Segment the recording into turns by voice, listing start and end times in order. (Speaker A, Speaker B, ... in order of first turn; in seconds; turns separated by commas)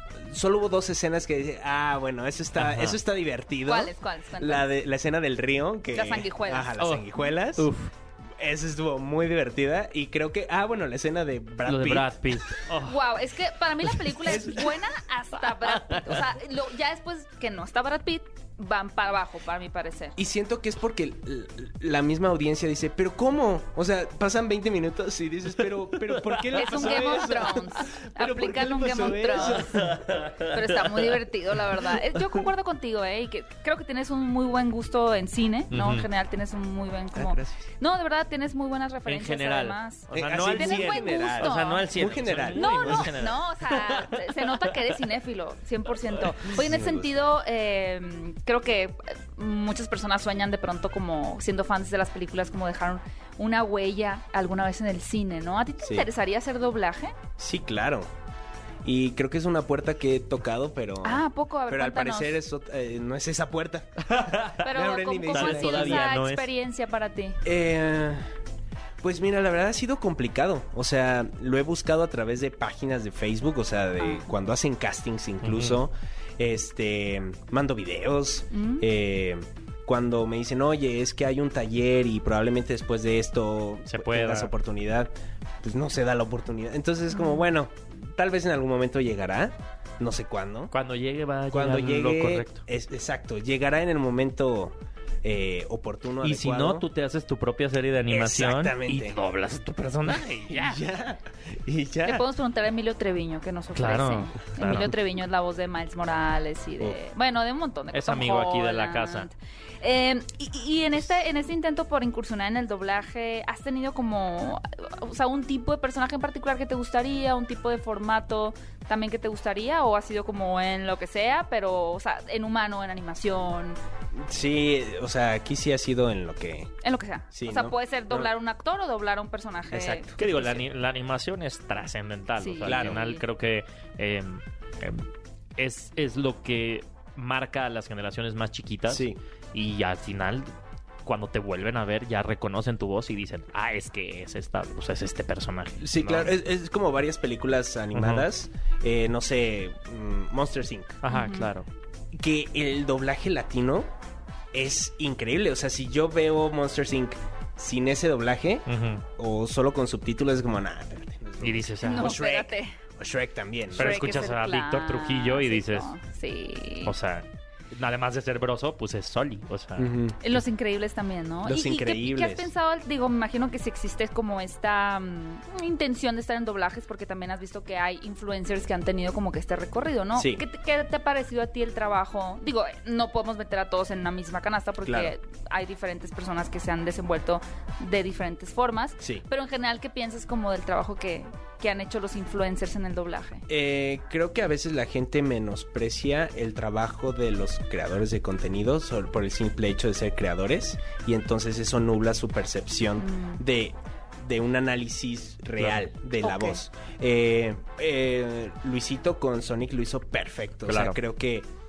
Speaker A: 0.2-7.7, Speaker B: 2.6-3.0, Speaker C: 3.7-4.7, Speaker C: 5.9-6.8, Speaker B: 6.8-7.9, Speaker A: 8.4-12.1, Speaker B: 11.7-13.1, Speaker C: 12.8-20.2, Speaker A: 14.3-14.7, Speaker B: 15.6-16.2, Speaker A: 20.2-29.9, Speaker B: 26.1-27.1, Speaker C: 26.5-29.9, Speaker B: 29.3-31.2, Speaker C: 30.4-41.9, Speaker B: 35.7-36.1, Speaker A: 37.1-37.6, Speaker B: 39.1-44.6, Speaker A: 40.1-43.2, Speaker C: 42.5-57.2, Speaker A: 46.5-47.1, Speaker A: 55.8-56.1, Speaker A: 57.4-58.1, Speaker A: 58.8-66.1, Speaker C: 61.0-62.4, Speaker B: 64.1-64.7, Speaker C: 64.6-67.4, Speaker B: 65.3-66.5, Speaker A: 67.4-68.3, Speaker A: 69.0-85.1, Speaker B: 75.4-75.8, Speaker C: 78.5-78.8, Speaker B: 83.9-84.5, Speaker A: 85.6-90.7, Speaker C: 87.1-87.4, Speaker B: 90.7-92.7, Speaker A: 91.5-96.9, Speaker B: 96.2-100.8, Speaker A: 98.1-99.2, Speaker A: 100.1-102.3, Speaker C: 102.0-123.8, Speaker B: 103.8-104.9, Speaker B: 107.9-109.3, Speaker A: 124.1-126.7, Speaker C: 126.8-130.2, Speaker A: 127.3-128.3, Speaker A: 129.7-130.3, Speaker B: 130.2-140.5, Speaker C: 132.4-133.2, Speaker A: 132.7-133.0, Speaker A: 138.9-139.2, Speaker B: 141.1-146.3, Speaker A: 145.8-151.0, Speaker B: 147.9-148.3, Speaker B: 151.0-151.7, Speaker C: 151.1-151.5, Speaker A: 152.1-153.9, Speaker A: 154.5-164.1, Speaker B: 158.7-159.0, Speaker B: 161.4-162.2, Speaker C: 161.8-162.8, Speaker B: 163.8-165.9, Speaker C: 163.8-166.9, Speaker B: 166.8-170.0, Speaker A: 169.8-170.2, Speaker C: 170.2-193.5, Speaker A: 171.4-172.5, Speaker A: 180.2-180.4, Speaker A: 184.8-185.1, Speaker A: 193.5-211.5, Speaker C: 203.0-203.4, Speaker B: 205.6-205.9, Speaker C: 206.2-206.6, Speaker B: 210.7-211.0